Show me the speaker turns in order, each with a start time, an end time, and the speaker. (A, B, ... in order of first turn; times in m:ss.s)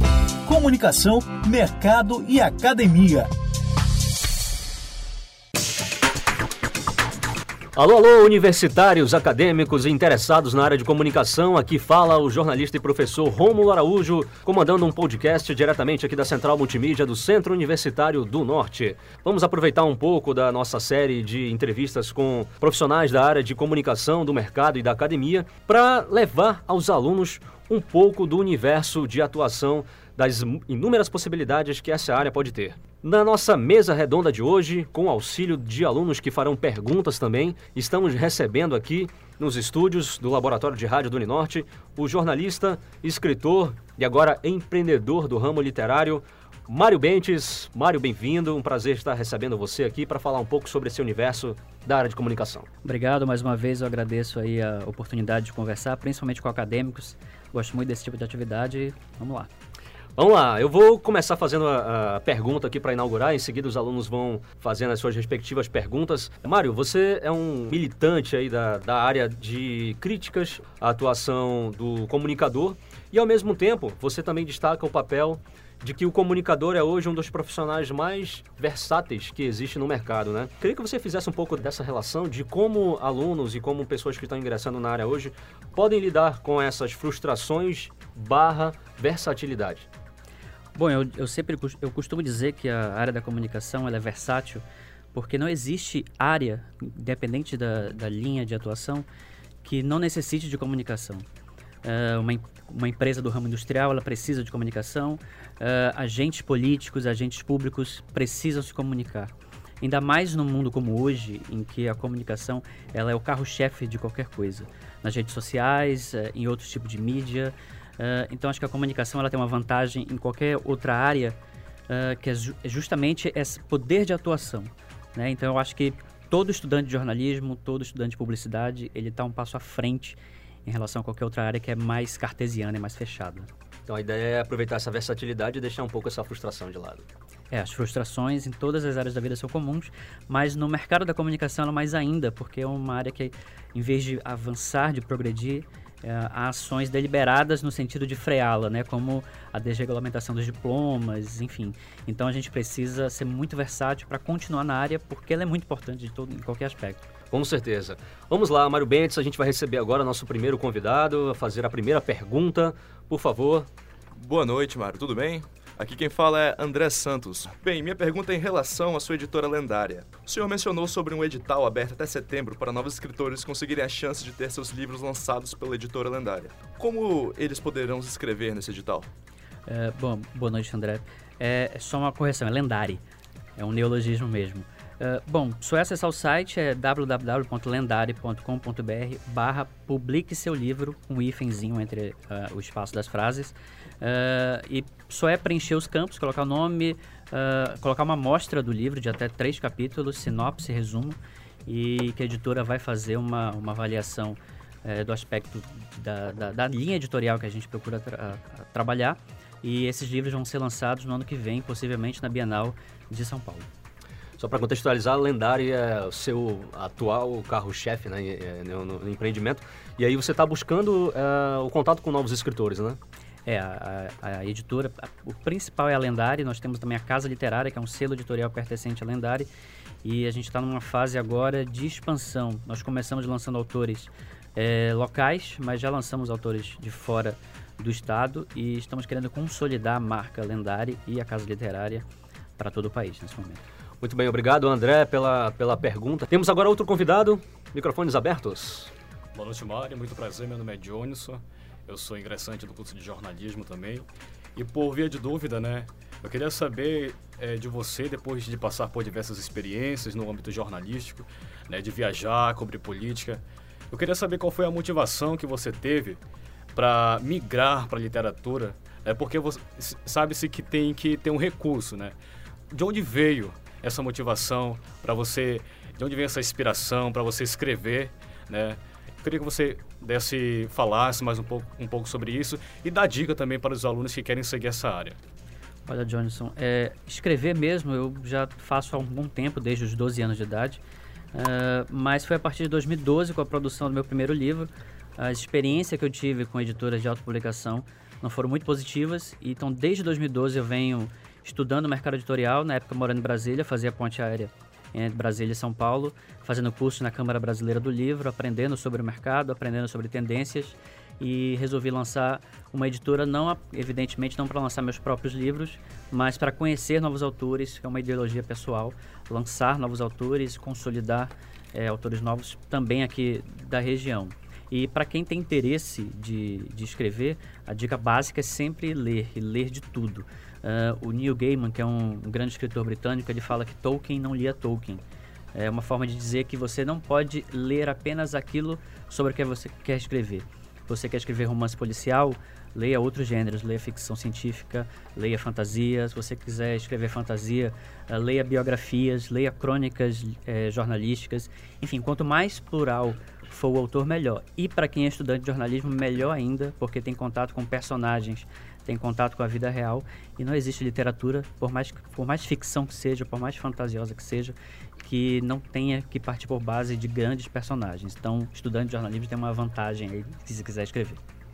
0:00.5-0:03.3 A
0:07.8-0:52.7 B
0:52.8-0:59.5 C
1:00.2-1:29.9 B
1:30.7-1:39.1 C
1:39.6-1:41.2 C
1:41.8-2:01.4 C
2:01.9-2:13.5 C
2:13.9-2:17.1 B
2:17.5-2:37.1 C
2:37.3-2:43.7 B
2:44.1-2:59.1 D
2:59.7-3:03.0 C
3:03.6-3:33.7 C
3:34.4-3:43.0 B
3:43.4-3:49.5 C
3:50.0-4:02.1 C
4:02.6-4:03.6 C
4:04.0-4:08.9 B
4:09.3-4:26.2 E
4:26.8-4:32.2 E
4:32.7-4:45.2 E
4:45.9-4:50.8 C
4:51.3-5:35.0 C
5:35.6-6:11.2 C